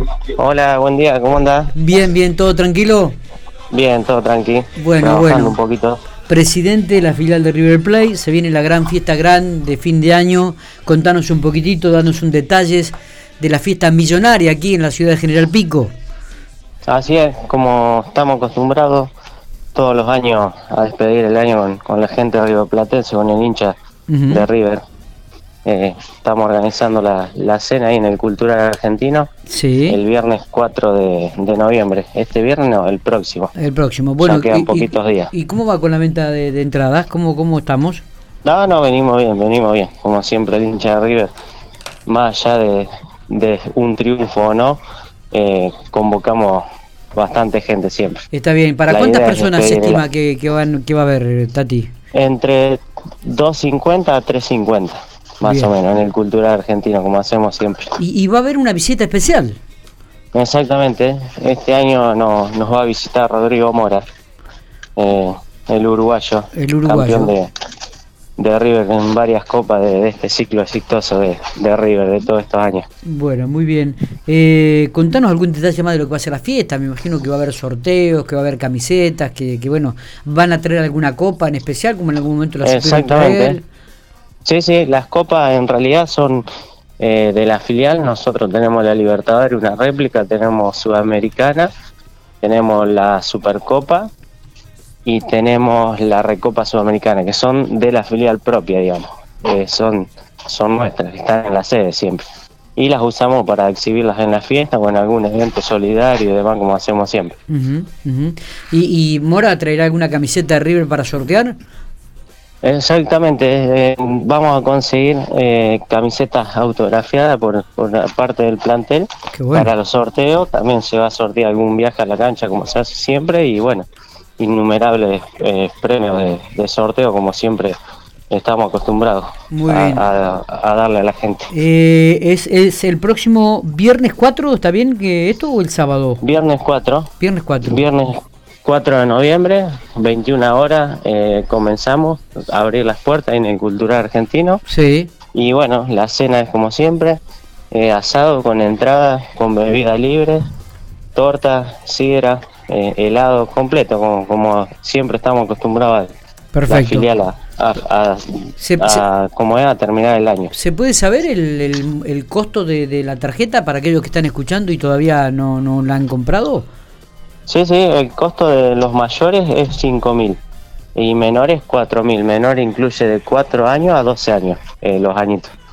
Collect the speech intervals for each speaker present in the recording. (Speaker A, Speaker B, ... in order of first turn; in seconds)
Speaker A: 0.3-1.7, 3.7-6.0, 16.9-19.1, 19.7-23.7, 24.3-24.8, 25.6-29.3, 29.9-33.5, 34.2-35.3, 38.4-41.3, 42.1-44.8, 45.3-46.6, 47.1-48.2, 48.9-50.0, 52.1-58.0, 60.3-64.0, 65.0-67.5, 68.4-72.8, 82.6-83.6, 84.4-86.5, 87.0-91.7, 92.4-94.1, 95.0-102.2, 102.8-107.3, 112.6-123.8, 124.4-127.8, 128.3-131.5, 136.2-137.1, 137.6-144.6, 145.3-147.2, 147.7-150.4, 151.2-156.1, 156.7-160.5, 167.5-170.4, 170.9-175.5
Speaker B: 1.7-3.1, 4.7-5.6, 6.3-15.9, 24.1-24.5, 29.5-30.0, 33.5-38.0, 48.3-51.9, 55.4-55.7, 58.0-59.6, 66.5-67.3, 73.0-83.6, 107.5-111.5, 119.3-119.7, 129.5-130.1, 131.5-136.2, 137.2-137.8, 144.7-145.1, 156.5-157.1, 158.6-159.0, 160.5-166.7